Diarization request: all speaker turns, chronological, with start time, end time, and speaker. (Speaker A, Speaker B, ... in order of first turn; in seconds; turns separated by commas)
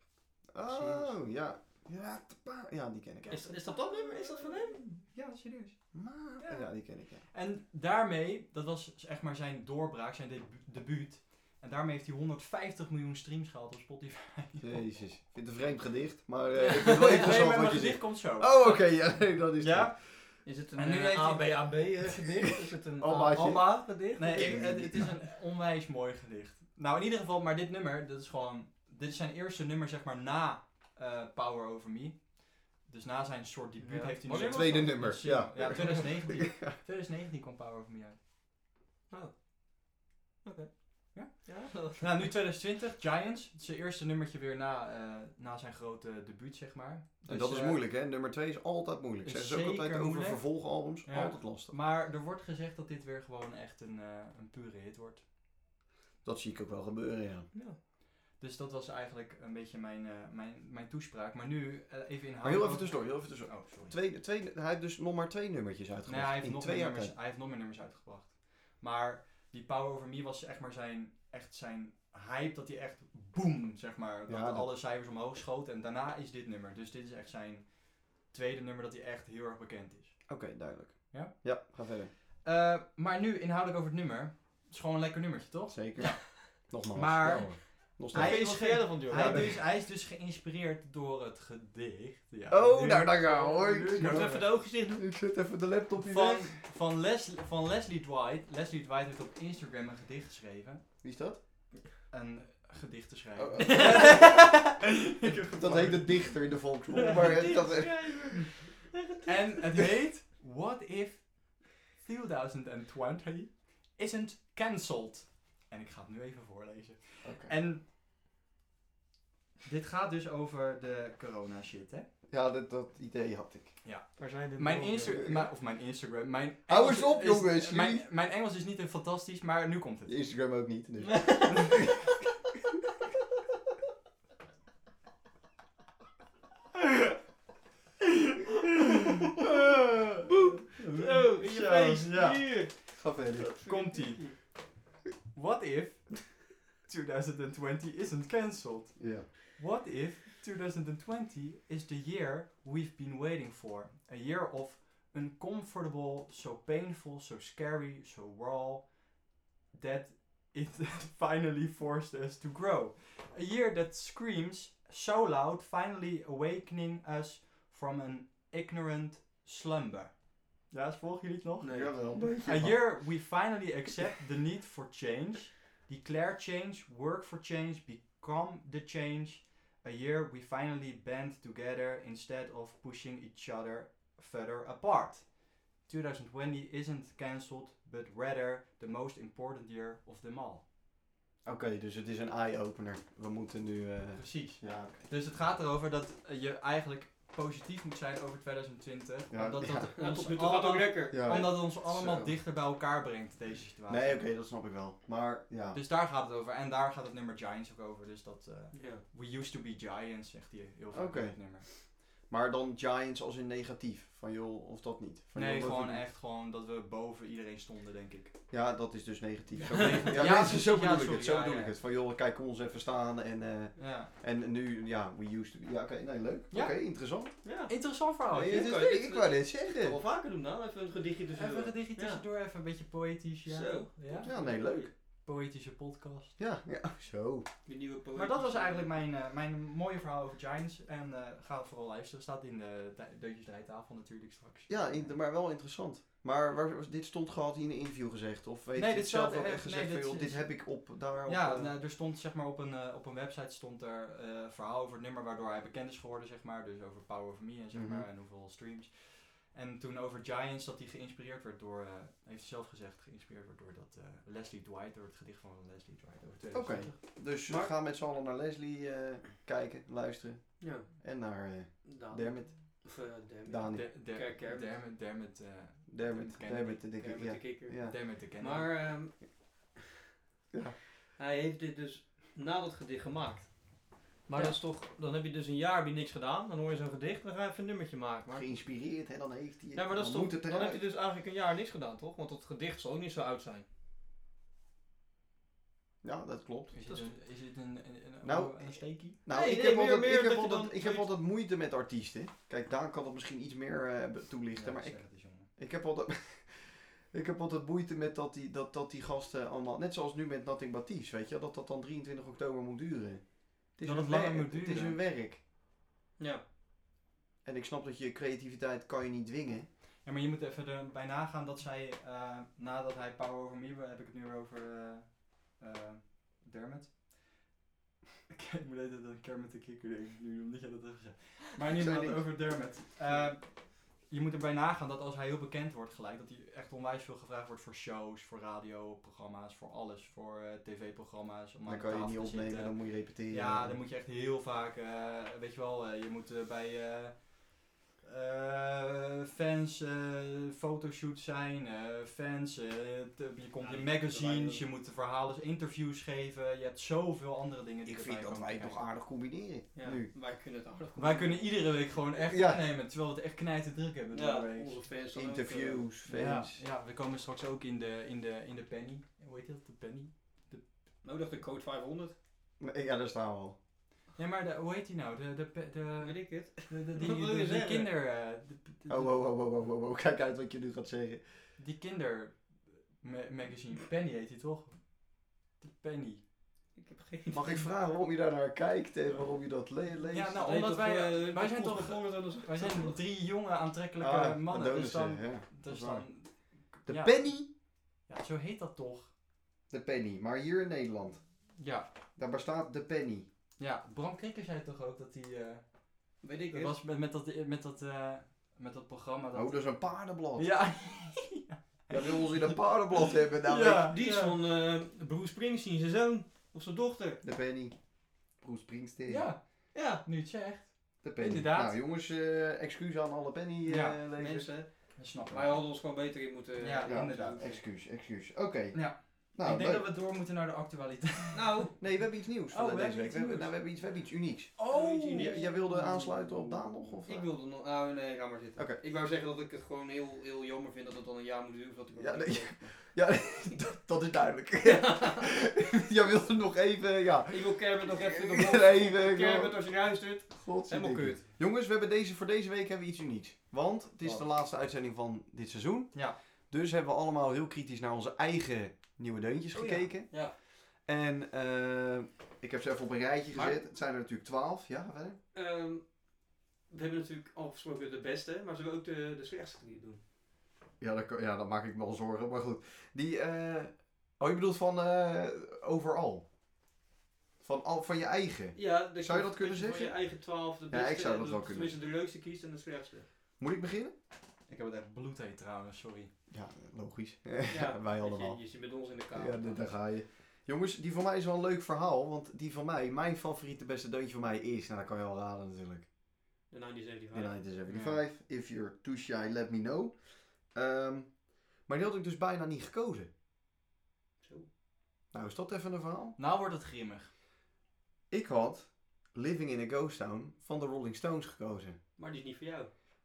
Speaker A: 0.5-3.5, Speaker B: 0.7-1.1, Speaker C: 3.3-14.8, Speaker B: 3.3-4.8, Speaker A: 5.9-7.2, Speaker A: 14.6-20.0, Speaker C: 16.5-21.6, Speaker B: 16.8-17.6, Speaker B: 20.4-24.9, Speaker A: 23.0-25.1, Speaker C: 24.1-38.2, Speaker B: 33.8-35.2, Speaker A: 34.3-36.7, Speaker B: 40.4-42.2, Speaker C: 41.1-47.8, Speaker A: 47.3-51.7, Speaker C: 49.2-55.2, Speaker A: 56.2-57.5, Speaker B: 57.5-57.8, Speaker C: 58.4-63.9, Speaker A: 62.4-67.1, Speaker C: 66.1-80.2, Speaker A: 74.3-74.7, Speaker A: 80.3-82.1, Speaker C: 81.1-81.6, Speaker C: 82.4-94.5, Speaker A: 85.7-89.6, Speaker B: 88.0-89.6, Speaker A: 92.5-96.5, Speaker B: 94.0-95.1, Speaker C: 96.0-100.8, Speaker A: 101.0-101.4, Speaker C: 102.1-107.8, Speaker A: 103.3-108.5, Speaker B: 103.6-104.3, Speaker B: 107.0-108.8, Speaker C: 109.2-117.8, Speaker A: 117.2-117.5, Speaker C: 119.7-122.1, Speaker A: 122.3-123.8, Speaker C: 123.8-130.2, Speaker B: 124.2-125.2, Speaker A: 125.0-125.5, Speaker A: 126.7-128.0, Speaker A: 130.1-132.1, Speaker B: 131.1-131.8, Speaker B: 140.2-144.3, Speaker C: 140.8-142.7, Speaker A: 142.9-143.5, Speaker C: 143.7-144.6, Speaker C: 145.3-159.2, Speaker A: 148.9-149.3, Speaker C: 159.7-190.6, Speaker B: 171.6-171.9, Speaker A: 171.7-173.0, Speaker A: 191.4-195.0, Speaker C: 194.2-204.3, Speaker A: 199.3-199.9, Speaker B: 200.0-201.6, Speaker A: 201.1-202.3, Speaker A: 203.9-205.8, Speaker C: 205.7-211.7, Speaker B: 208.7-209.0, Speaker A: 210.9-216.0, Speaker C: 215.3-218.3, Speaker A: 218.5-227.3, Speaker B: 219.6-220.2, Speaker C: 219.8-221.7, Speaker C: 223.8-224.1, Speaker C: 226.5-226.8, Speaker B: 227.4-232.2, Speaker C: 227.7-228.7, Speaker A: 228.3-230.0, Speaker C: 231.3-236.3, Speaker B: 233.4-234.8, Speaker A: 234.2-234.9, Speaker A: 236.4-237.5, Speaker B: 237.7-238.9, Speaker C: 238.1-245.2, Speaker A: 244.7-251.7, Speaker C: 248.7-266.9, Speaker A: 257.7-258.1, Speaker A: 266.5-273.9, Speaker B: 266.9-267.7, Speaker B: 270.6-271.1, Speaker B: 271.8-274.7, Speaker C: 273.7-278.8, Speaker A: 275.9-278.0, Speaker B: 277.0-279.8, Speaker A: 280.5-280.8, Speaker B: 281.1-288.4, Speaker A: 288.3-290.8, Speaker B: 289.7-293.6, Speaker A: 296.0-296.7, Speaker C: 296.7-299.2, Speaker B: 296.9-297.1, Speaker A: 298.2-315.4, Speaker B: 299.3-301.1, Speaker C: 304.5-305.5, Speaker C: 313.8-315.0, Speaker B: 316.2-316.4, Speaker A: 317.4-319.7, Speaker C: 320.0-327.1, Speaker C: 328.3-358.8, Speaker A: 331.7-332.3, Speaker A: 341.7-343.8, Speaker B: 353.6-354.6, Speaker A: 357.9-360.1, Speaker B: 359.7-361.6, Speaker C: 360.9-364.8, Speaker A: 362.3-362.6, Speaker B: 364.1-365.9, Speaker A: 365.1-366.6, Speaker C: 366.1-370.6, Speaker B: 371.0-372.1, Speaker A: 372.6-373.6, Speaker C: 374.2-379.2, Speaker B: 376.0-377.9, Speaker A: 378.9-381.2, Speaker C: 381.6-386.2, Speaker B: 386.7-387.6, Speaker A: 387.3-390.4, Speaker C: 390.1-397.5, Speaker B: 390.4-393.0, Speaker A: 394.0-396.1, Speaker A: 396.9-397.5, Speaker C: 398.0-399.1, Speaker A: 399.7-401.2, Speaker B: 401.6-401.9, Speaker A: 402.2-403.3, Speaker C: 403.6-405.8, Speaker B: 406.2-406.7, Speaker C: 406.5-409.8, Speaker A: 409.3-410.7, Speaker C: 410.3-412.5, Speaker A: 411.9-413.9, Speaker C: 413.4-414.4, Speaker B: 413.9-417.2, Speaker A: 417.2-417.8, Speaker A: 418.3-419.3, Speaker C: 419.1-419.4, Speaker B: 419.7-420.0, Speaker C: 420.0-421.8, Speaker A: 421.0-424.5, Speaker C: 423.6-424.0, Speaker B: 424.1-427.6, Speaker C: 424.9-425.6, Speaker C: 426.6-427.4, Speaker A: 426.9-429.9, Speaker C: 428.7-431.6, Speaker B: 431.3-431.8, Speaker A: 431.8-437.3, Speaker C: 432.5-433.5, Speaker C: 434.6-435.4, Speaker B: 434.7-442.8, Speaker A: 438.6-438.8, Speaker A: 441.9-449.6, Speaker B: 444.6-445.3, Speaker B: 447.3-451.2, Speaker A: 450.3-465.2, Speaker B: 459.5-460.3, Speaker B: 463.3-463.6, Speaker B: 465.3-470.0, Speaker A: 470.8-476.2, Speaker A: 477.4-480.0, Speaker B: 478.5-483.1, Speaker A: 480.7-481.7, Speaker A: 483.4-483.9, Speaker C: 484.5-486.1, Speaker A: 486.3-488.4, Speaker B: 487.5-489.7, Speaker A: 489.1-495.9, Speaker B: 496.5-497.4, Speaker A: 497.1-503.1, Speaker C: 497.7-498.0, Speaker B: 504.2-504.5, Speaker A: 505.1-506.2, Speaker C: 506.2-507.1, Speaker A: 508.1-511.8, Speaker B: 512.0-512.7